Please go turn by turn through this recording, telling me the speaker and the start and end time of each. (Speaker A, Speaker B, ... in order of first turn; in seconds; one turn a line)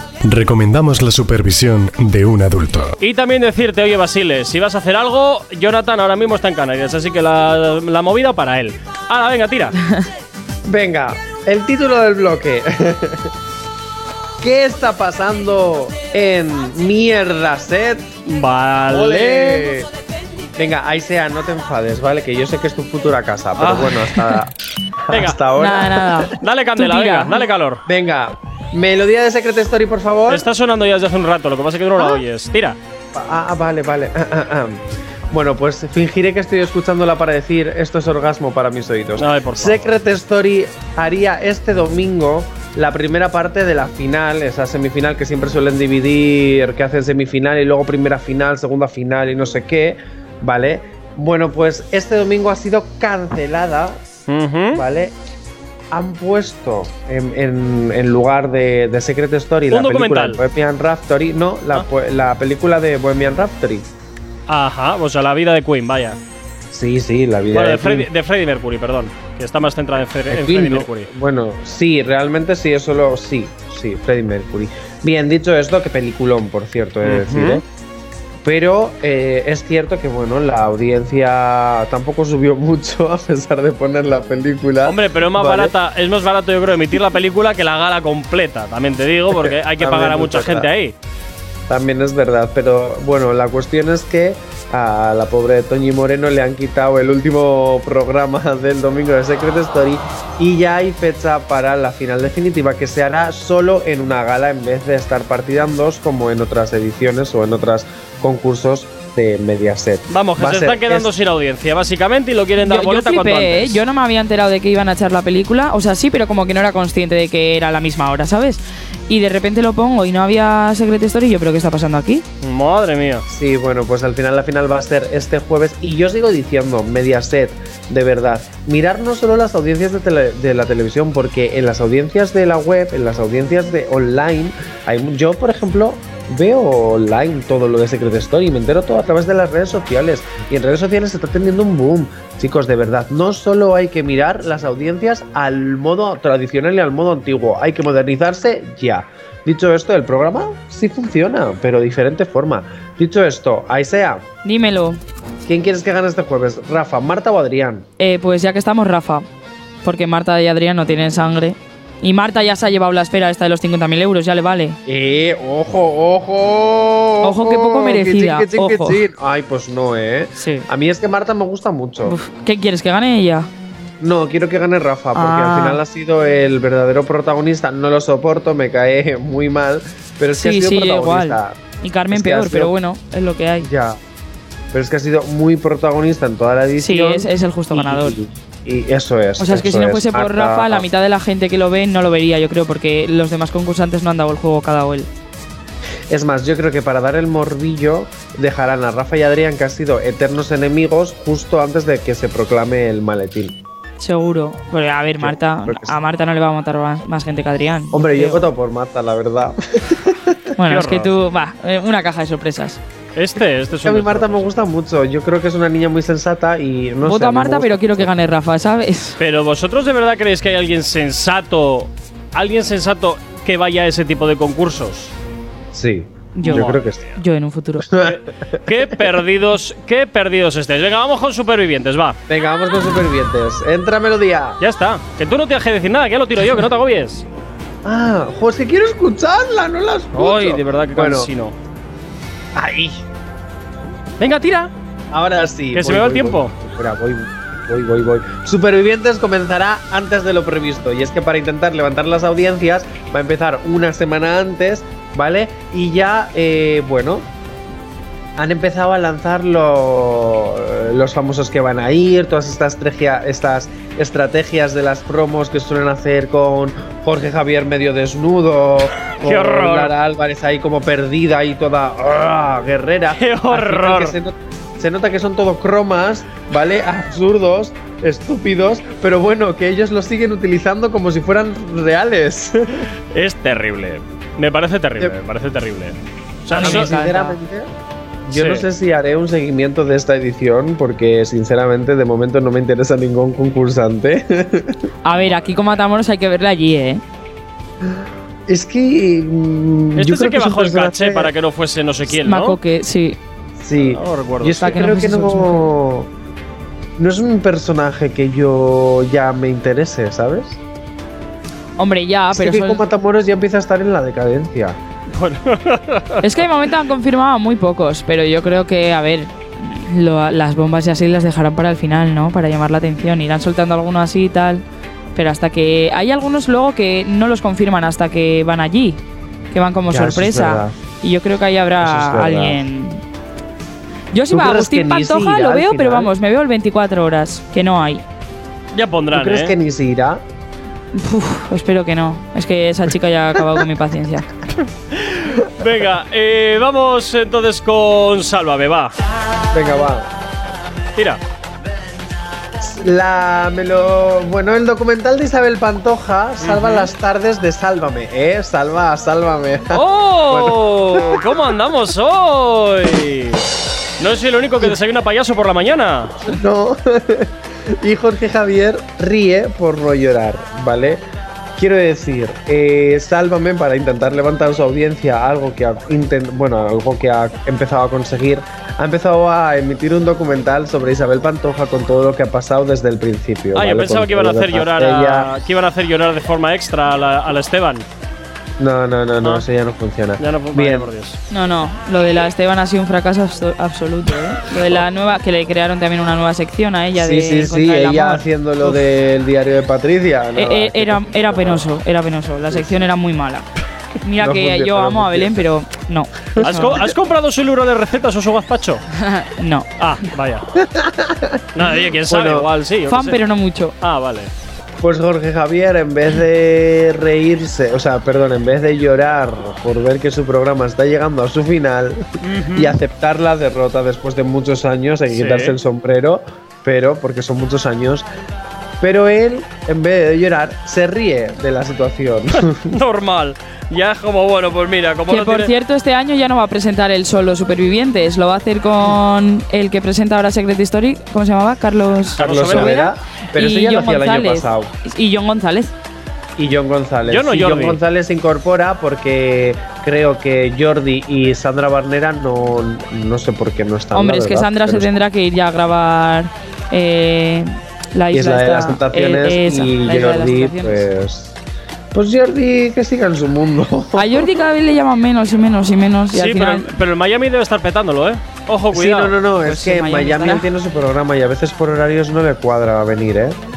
Speaker A: 0.3-2.9
Speaker B: 3.0-9.8
Speaker C: 10.7-13.3
Speaker C: 14.4-18.1
Speaker B: 18.3-19.7
Speaker C: 18.9-19.9
Speaker C: 20.6-24.5
Speaker B: 23.6-24.1
Speaker C: 25.1-26.3
Speaker B: 25.1-25.4
Speaker D: 25.5-27.4
Speaker B: 26.3-27.8
Speaker C: 27.9-30.4
Speaker B: 30.3-32.8
Speaker C: 33.1-54.0
Speaker B: 39.2-39.9
Speaker B: 54.3-54.8
Speaker C: 54.7-55.1
Speaker C: 55.9-63.9
Speaker B: 59.7-60.4
Speaker B: 64.5-66.2
Speaker C: 66.7-68.1
Speaker B: 67.5-71.1
Speaker C: 70.3-77.6
Speaker B: 77.0-77.6
Speaker C: 78.4-85.7
Speaker B: 84.8-90.9
Speaker C: 89.3-90.7
Speaker C: 91.7-111.1
Speaker B: 110.1-113.8
Speaker D: 112.6-122.2
Speaker B: 122.4-123.2
Speaker C: 123.3-154.2
Speaker D: 154.4-155.0
Speaker C: 155.4-157.8
Speaker D: 158.0-159.2
Speaker D: 159.8-164.8
Speaker C: 164.8-172.2
Speaker D: 167.2-169.0
Speaker D: 170.4-170.7
Speaker D: 172.0-173.5
Speaker C: 174.0-181.6
Speaker D: 175.1-175.8
Speaker D: 180.3-183.7
Speaker C: 182.1-182.7
Speaker C: 183.6-184.0
Speaker C: 184.7-190.8
Speaker D: 186.8-188.2
Speaker D: 189.4-195.1
Speaker C: 196.1-203.6
Speaker D: 204.0-208.4
Speaker C: 205.2-205.9
Speaker C: 207.9-210.5
Speaker D: 210.6-212.8
Speaker B: 210.7-211.1
Speaker B: 213.2-214.5
Speaker C: 213.8-218.1
Speaker D: 217.0-219.2
Speaker B: 219.2-225.1
Speaker C: 225.7-227.0
Speaker D: 226.3-227.9
Speaker B: 226.4-226.9
Speaker C: 227.8-228.6
Speaker B: 228.0-232.2
Speaker C: 232.3-234.6
Speaker B: 234.6-237.2
Speaker C: 237.8-241.3
Speaker B: 240.1-241.5
Speaker C: 242.6-243.0
Speaker B: 244.2-244.7
Speaker C: 245.1-257.3
Speaker B: 245.7-246.5
Speaker C: 258.4-282.9
Speaker B: 269.2-269.9
Speaker B: 273.2-274.1
Speaker B: 283.1-286.9
Speaker C: 286.5-287.7
Speaker D: 286.5-287.4
Speaker C: 288.2-294.9
Speaker B: 288.3-288.6
Speaker D: 295.0-297.0
Speaker C: 297.8-301.3
Speaker B: 300.0-302.6
Speaker D: 302.2-303.2
Speaker C: 303.6-306.1
Speaker B: 303.8-304.8
Speaker D: 304.5-305.7
Speaker C: 307.0-310.6
Speaker D: 311.8-312.8
Speaker C: 312.3-314.8
Speaker B: 315.1-316.2
Speaker D: 316.2-324.6
Speaker D: 325.1-329.0
Speaker D: 329.5-333.0
Speaker C: 329.9-330.8
Speaker C: 331.8-332.6
Speaker D: 334.1-338.0
Speaker C: 334.3-336.1
Speaker B: 338.7-339.5
Speaker C: 339.1-340.2
Speaker D: 340.9-344.3
Speaker B: 344.6-348.9
Speaker C: 349.5-350.1
Speaker C: 352.6-361.4
Speaker B: 356.4-356.9
Speaker B: 359.7-363.4
Speaker B: 364.0-366.2
Speaker C: 366.2-371.0
Speaker C: 371.6-385.3
Speaker B: 383.5-387.8
Speaker C: 388.6-390.9
Speaker B: 390.2-391.2
Speaker D: 391.3-398.2
Speaker C: 396.9-401.6
Speaker D: 400.4-403.5
Speaker C: 402.5-402.9
Speaker D: 404.0-406.8
Speaker C: 404.2-405.4
Speaker C: 406.4-406.8
Speaker B: 406.4-408.8
Speaker D: 408.9-409.7
Speaker B: 409.8-410.4
Speaker C: 410.5-412.5
Speaker B: 411.5-413.2
Speaker D: 412.9-413.7
Speaker B: 413.8-414.3
Speaker C: 414.8-428.1
Speaker B: 422.2-422.7
Speaker B: 425.1-425.5
Speaker C: 428.8-432.8
Speaker B: 432.6-435.5
Speaker D: 435.1-445.7
Speaker B: 442.2-442.8
Speaker C: 442.2-444.7
Speaker C: 446.4-454.9
Speaker B: 447.1-447.8
Speaker D: 453.9-460.9
Speaker C: 458.1-461.4
Speaker C: 461.9-464.3
Speaker D: 463.9-466.7
Speaker B: 466.1-469.1
Speaker C: 468.7-473.4
Speaker D: 469.4-470.5